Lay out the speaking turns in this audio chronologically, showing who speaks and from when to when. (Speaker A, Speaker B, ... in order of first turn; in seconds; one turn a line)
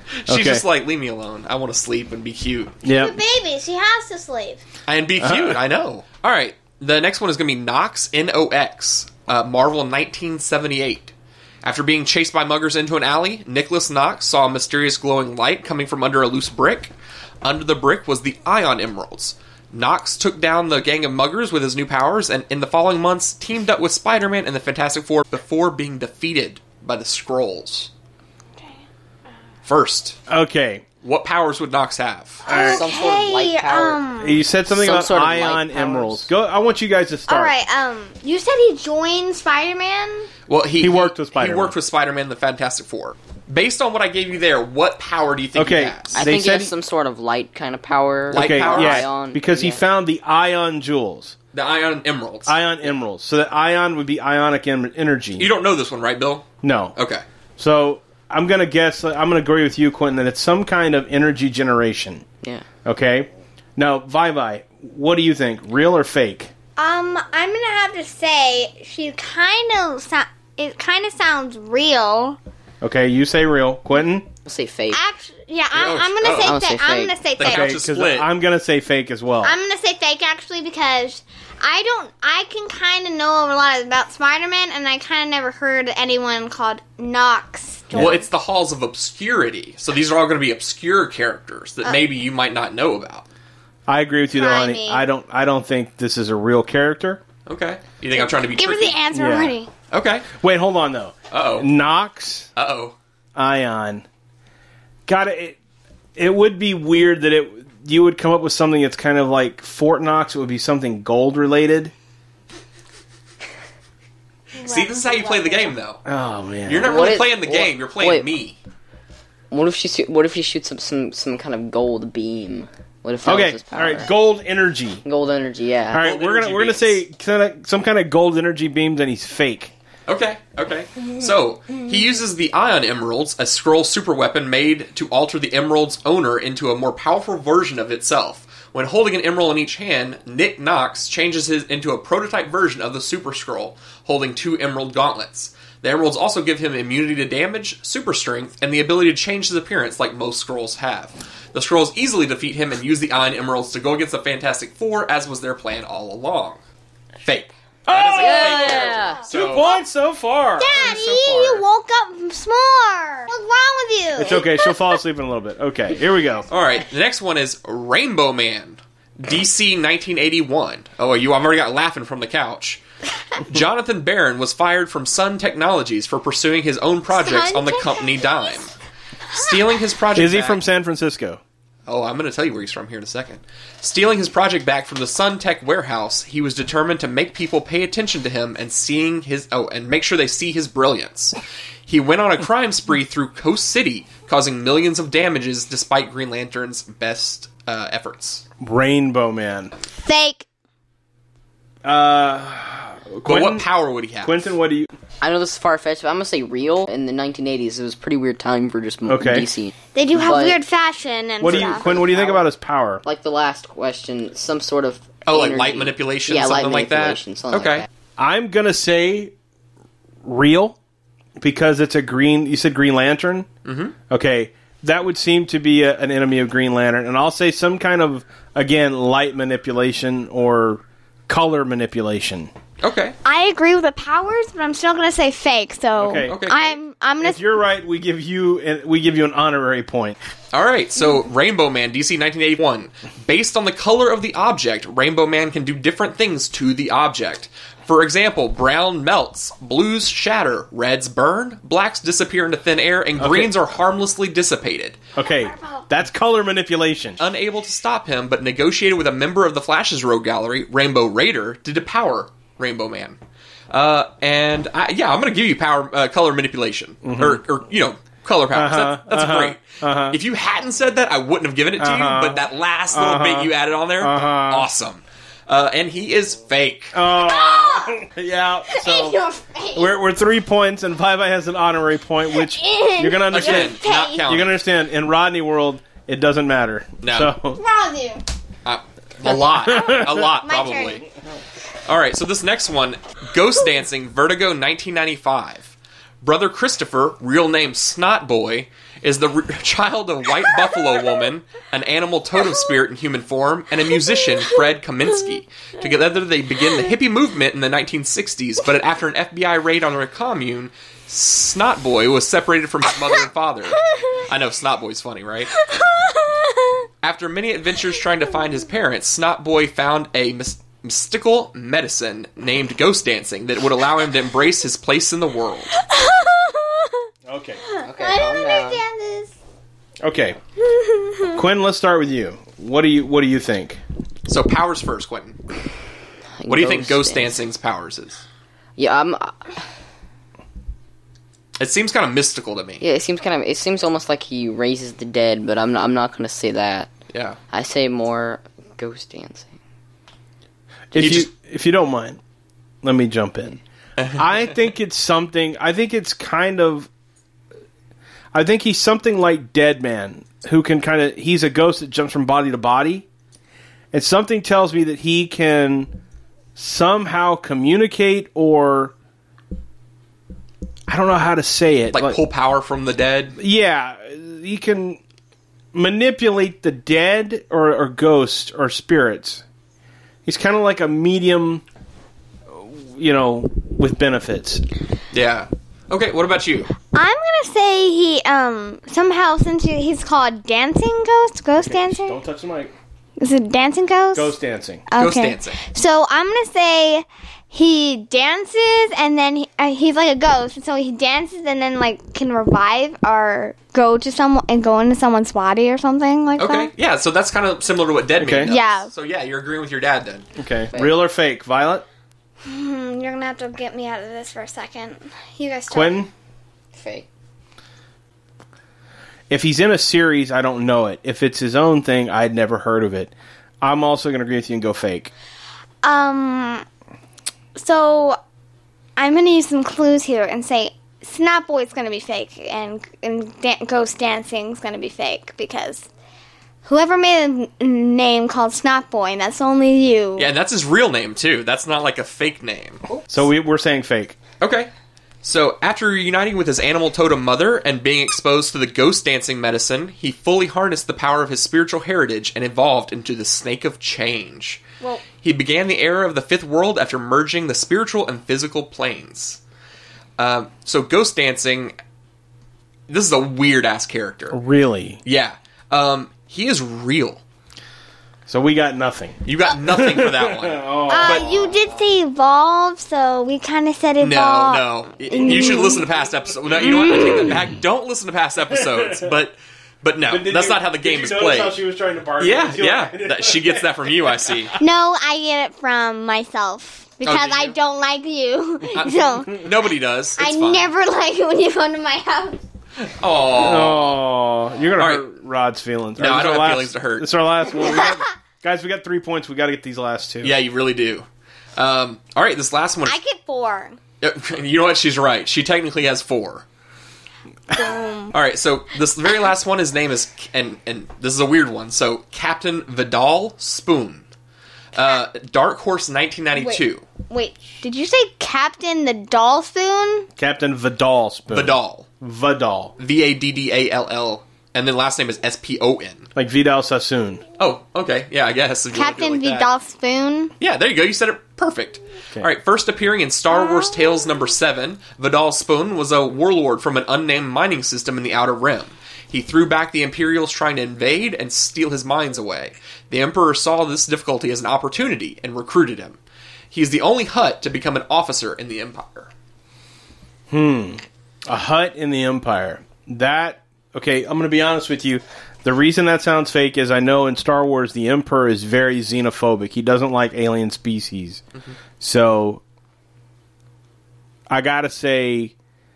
Speaker A: 0.2-2.8
Speaker B: 0.3-0.6
Speaker B: 2.8-3.2
Speaker C: 2.9-4.6
Speaker A: 4.9-27.9
Speaker B: 5.2-5.6
Speaker A: 29.6-30.2
Speaker B: 30.3-30.8
Speaker A: 31.0-32.5
Speaker C: 32.5-34.4
Speaker B: 32.5-32.9
Speaker D: 32.5-34.0
Speaker B: 34.2-37.5
Speaker D: 34.7-36.3
Speaker C: 37.3-40.3
Speaker A: 40.5-46.2
Speaker B: 40.8-41.8
Speaker B: 45.6-46.7
Speaker D: 46.1-49.8
Speaker A: 48.3-49.1
Speaker B: 48.3-51.4
Speaker A: 51.5-52.6
Speaker B: 52.5-55.5
Speaker A: 55.4-57.2
Speaker B: 56.6-57.0
Speaker B: 57.6-62.2
Speaker B: 62.9-66.5
Speaker C: 66.8-72.4
Speaker B: 72.8-74.3
Speaker D: 74.5-75.0
Speaker C: 74.9-77.8
Speaker A: 75.7-76.6
Speaker D: 76.4-77.2
Speaker A: 77.4-78.3
Speaker B: 77.4-79.6
Speaker C: 79.4-88.2
Speaker B: 87.9-88.2
Speaker A: 87.9-93.2
Speaker B: 93.9-97.2
Speaker C: 94.3-95.0
Speaker A: 97.5-99.0
Speaker C: 98.1-99.7
Speaker B: 99.1-99.5
Speaker A: 99.9-100.3
Speaker B: 100.3-102.5
Speaker A: 101.3-101.7
Speaker A: 102.6-103.0
Speaker B: 103.4-104.0
Speaker B: 105.1-105.6
Speaker B: 106.2-111.9
Speaker C: 114.5-115.7
Speaker A: 114.6-116.0
Speaker B: 116.0-117.2
Speaker A: 116.7-118.6
Speaker D: 116.8-118.3
Speaker D: 119.5-124.1
Speaker B: 123.2-125.0
Speaker D: 125.0-126.1
Speaker B: 125.9-129.7
Speaker A: 126.0-127.0
Speaker A: 130.1-156.6
Speaker A: 157.2-159.7
Speaker B: 157.9-161.6
Speaker D: 158.1-159.2
Speaker C: 160.6-164.9
Speaker B: 164.2-166.5
Speaker A: 166.5-172.8
Speaker A: 173.4-178.7
Speaker C: 177.1-178.7
Speaker A: 179.3-180.6
Speaker B: 180.2-181.4
Speaker A: 181.9-198.4
Speaker B: 198.6-199.7
Speaker C: 200.0-200.5
Speaker B: 201.8-203.7
Speaker A: 203.2-204.5
Speaker B: 204.2-204.9
Speaker D: 205.2-210.6
Speaker B: 209.1-209.5
Speaker C: 209.9-211.9
Speaker B: 211.4-213.0
Speaker D: 211.5-212.4
Speaker D: 213.0-217.9
Speaker A: 215.3-217.9
Speaker B: 218.2-219.3
Speaker B: 220.2-220.8
Speaker B: 221.4-223.5
Speaker A: 223.7-223.9
Speaker B: 224.1-232.5
Speaker A: 232.8-233.2
Speaker C: 233.2-237.4
Speaker B: 236.0-236.4
Speaker A: 236.3-236.8
Speaker B: 237.2-240.2
Speaker A: 240.5-255.0
Speaker B: 253.2-253.5
Speaker B: 255.2-257.2
Speaker C: 255.4-255.8
Speaker A: 257.2-263.2
Speaker A: 263.7-277.0
Speaker B: 267.0-267.4
Speaker B: 268.5-270.2
Speaker B: 271.8-274.7
Speaker B: 276.9-279.2
Speaker C: 277.2-278.0
Speaker C: 278.7-279.9
Speaker B: 279.8-287.6
Speaker C: 282.3-284.3
Speaker A: 283.3-284.6
Speaker A: 287.0-287.3
Speaker C: 287.6-288.2
Speaker A: 288.6-291.0
Speaker B: 289.7-290.3
Speaker C: 289.7-291.1
Speaker A: 291.9-315.5
Speaker C: 315.7-316.8
Speaker A: 317.0-325.8
Speaker C: 325.8-327.0
Speaker B: 327.3-327.6
Speaker C: 327.7-329.3
Speaker D: 327.8-328.8
Speaker B: 330.0-330.4
Speaker C: 330.6-331.4
Speaker B: 331.3-333.8
Speaker A: 334.3-335.4
Speaker D: 336.4-337.4
Speaker A: 336.5-338.2
Speaker D: 338.8-339.6
Speaker A: 341.6-342.8
Speaker D: 342.8-346.9
Speaker A: 347.1-347.4
Speaker D: 347.5-349.5
Speaker B: 350.9-352.2
Speaker A: 350.9-351.3
Speaker B: 352.8-353.6
Speaker A: 354.0-354.2
Speaker B: 354.1-356.9
Speaker B: 358.3-363.1
Speaker B: 363.9-365.9
Speaker B: 366.6-368.9
Speaker B: 370.9-372.2
Speaker A: 371.9-373.4
Speaker B: 373.4-375.0
Speaker B: 375.7-379.4
Speaker B: 380.3-381.6
Speaker B: 382.5-384.6
Speaker A: 385.1-386.7
Speaker C: 386.9-392.2
Speaker B: 391.6-392.7
Speaker C: 393.2-394.3
Speaker B: 394.1-394.8
Speaker C: 394.9-406.7
Speaker A: 395.0-395.6
Speaker A: 406.4-410.3
Speaker B: 408.2-408.5
Speaker C: 408.4-408.9
Speaker B: 410.4-411.9
Speaker C: 412.4-416.1
Speaker B: 415.7-416.1
Speaker D: 416.7-417.1
Speaker B: 419.3-425.1
Speaker C: 425.8-426.6
Speaker C: 427.6-428.2
Speaker C: 429.0-435.9
Speaker C: 436.6-440.3
Speaker A: 440.2-442.8
Speaker B: 443.1-444.2
Speaker A: 444.4-444.7
Speaker A: 445.2-454.6
Speaker A: 455.2-459.4
Speaker A: 460.2-461.8
Speaker A: 462.9-464.4
Speaker B: 464.3-465.0
Speaker A: 465.0-467.2
Speaker B: 468.3-471.5
Speaker A: 469.2-471.2
Speaker C: 470.9-475.8
Speaker A: 474.0-481.6
Speaker C: 476.6-477.4
Speaker B: 478.5-479.1
Speaker B: 480.1-484.6
Speaker A: 482.2-484.6
Speaker C: 484.6-489.5
Speaker A: 487.0-487.6
Speaker A: 488.7-490.7
Speaker C: 490.2-492.4
Speaker A: 492.8-494.0
Speaker B: 493.4-500.4
Speaker A: 494.8-495.1
Speaker A: 496.0-497.1
Speaker C: 497.6-498.1
Speaker A: 500.2-503.0
Speaker C: 502.9-503.8
Speaker A: 504.0-506.4
Speaker C: 507.5-508.2
Speaker A: 508.1-514.0
Speaker A: 514.7-516.9
Speaker C: 516.4-520.1
Speaker B: 520.2-522.7
Speaker A: 521.3-521.9
Speaker A: 522.8-526.1
Speaker B: 526.1-527.2
Speaker A: 527.4-529.5
Speaker C: 528.7-530.3
Speaker A: 530.4-546.0
Speaker C: 533.4-533.7
Speaker A: 546.5-549.1
Speaker B: 550.3-561.3
Speaker B: 561.8-562.4
Speaker B: 564.3-565.3